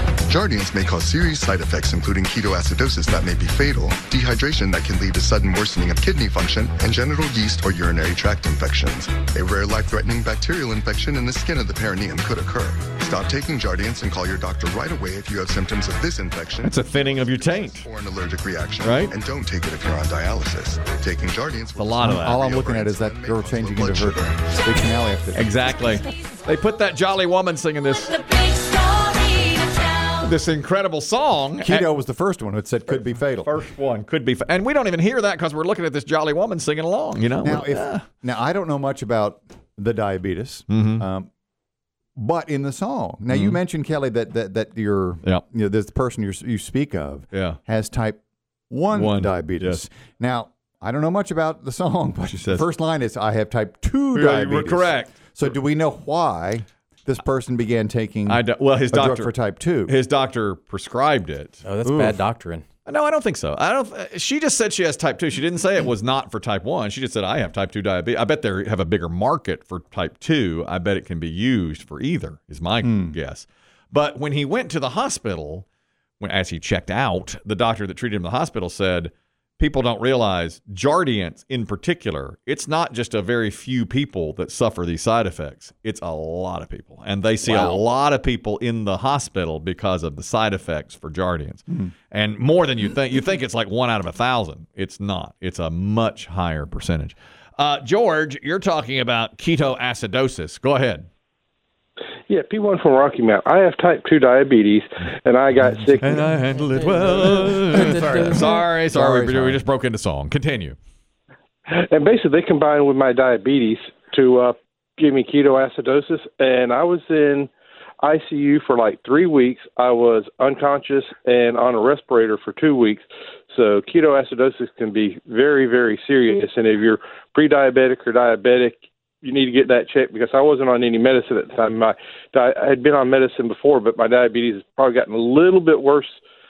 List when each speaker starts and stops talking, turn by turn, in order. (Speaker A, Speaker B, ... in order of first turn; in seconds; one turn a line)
Speaker A: 0.3-16.7
Speaker B: 16.6-17.9
Speaker A: 17.8-24.3
Speaker B: 18.8-19.1
Speaker B: 21.8-22.4
Speaker C: 22.0-25.6
Speaker B: 25.3-28.2
Speaker D: 28.0-30.3
Speaker B: 30.2-31.9
Speaker C: 31.6-33.5
Speaker B: 32.9-38.0
Speaker C: 37.4-41.3
Speaker B: 40.7-41.0
Speaker C: 42.2-59.9
Speaker B: 43.3-43.6
Speaker B: 47.3-47.6
Speaker B: 48.9-49.8
Speaker B: 52.3-52.7
Speaker B: 54.1-55.6
Speaker B: 58.3-61.6
Speaker E: 61.6-62.7
Speaker C: 61.8-62.2
Speaker B: 62.9-75.7
Speaker C: 72.8-73.2
Speaker B: 76.2-101.1
Speaker C: 87.4-87.8
Speaker F: 102.3-106.3
Speaker C: 105.8-106.2
Speaker B: 106.0-110.8
Speaker E: 106.7-108.6
Speaker C: 107.2-109.6
Speaker F: 111.8-117.5
Speaker F: 118.0-136.2